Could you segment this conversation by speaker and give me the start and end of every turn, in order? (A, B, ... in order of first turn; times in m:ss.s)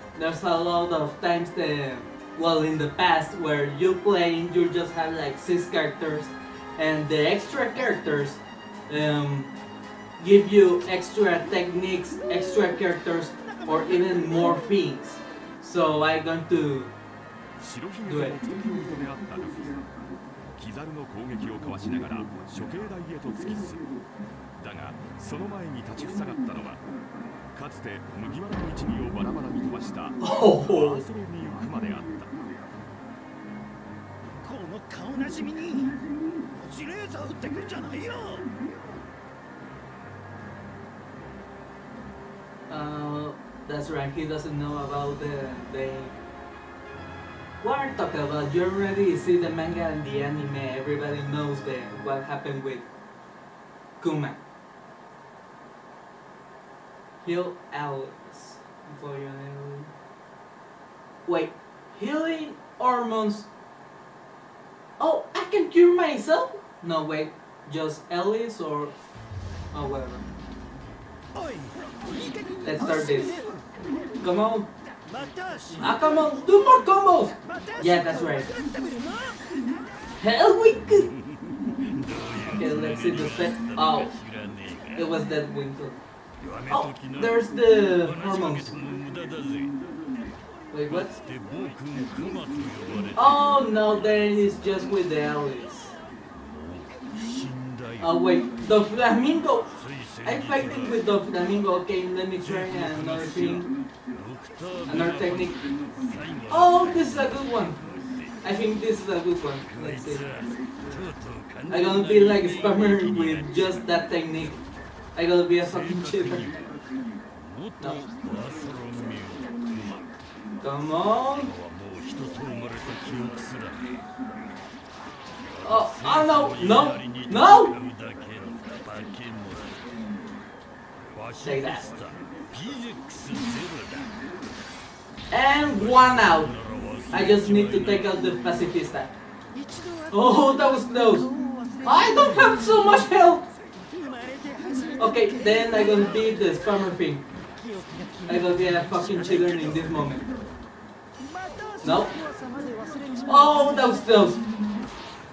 0:00.2-0:09.5 A
0:10.2-0:16.9 A
0:17.6-0:19.8 B
0:18.0-0:18.4 A
0:20.6-0:23.9 B
0:24.6-0:26.8 B
0:27.5-0:32.3 B
0:30.2-0:31.0 A
0:34.4-0:36.0 C
0:36.5-0:38.5 C
0:42.7-0:46.2 A
0:47.6-0:52.9 A
0:54.0-0:54.4 A
0:57.2-0:59.9 A
1:01.2-1:03.5 A
1:05.0-1:08.9 A
1:09.7-1:10.2 A
1:11.4-1:12.8 C
1:12.6-1:13.4 A
1:14.2-1:14.7 A
1:15.0-1:15.8 C
1:15.8-1:18.5 A
1:18.5-1:19.6 C
1:20.2-1:21.1 A
1:22.4-1:24.1 A
1:24.9-1:26.0 A
1:26.7-1:28.8 A
1:28.8-1:29.8 C
1:30.7-1:31.2 A
1:31.2-1:33.1 C
1:33.1-1:36.0 A
1:37.3-1:37.8 C
1:38.0-1:43.7 A
1:44.5-1:44.8 C
1:44.8-1:45.6 A
1:46.0-1:46.4 C
1:46.5-1:47.8 A
1:48.4-1:50.5 A
1:51.7-1:54.6 A
1:55.2-1:56.6 A
1:57.7-2:00.0 C
1:57.8-1:58.1 A
2:00.6-2:01.5 A
2:01.6-2:03.8 C
2:05.6-2:07.8 A
2:07.8-2:09.6 C
2:11.4-2:11.9 A
2:12.0-2:14.1 C
2:15.3-2:19.2 A
2:16.8-2:17.1 C
2:19.7-2:19.9 C
2:20.1-2:21.3 A
2:21.4-2:21.8 C
2:21.8-2:23.5 A
2:23.9-2:25.0 C
2:25.0-2:27.2 A
2:27.7-2:28.2 C
2:28.2-2:30.3 A
2:31.4-2:33.2 C
2:31.8-2:32.1 A
2:33.2-2:34.4 A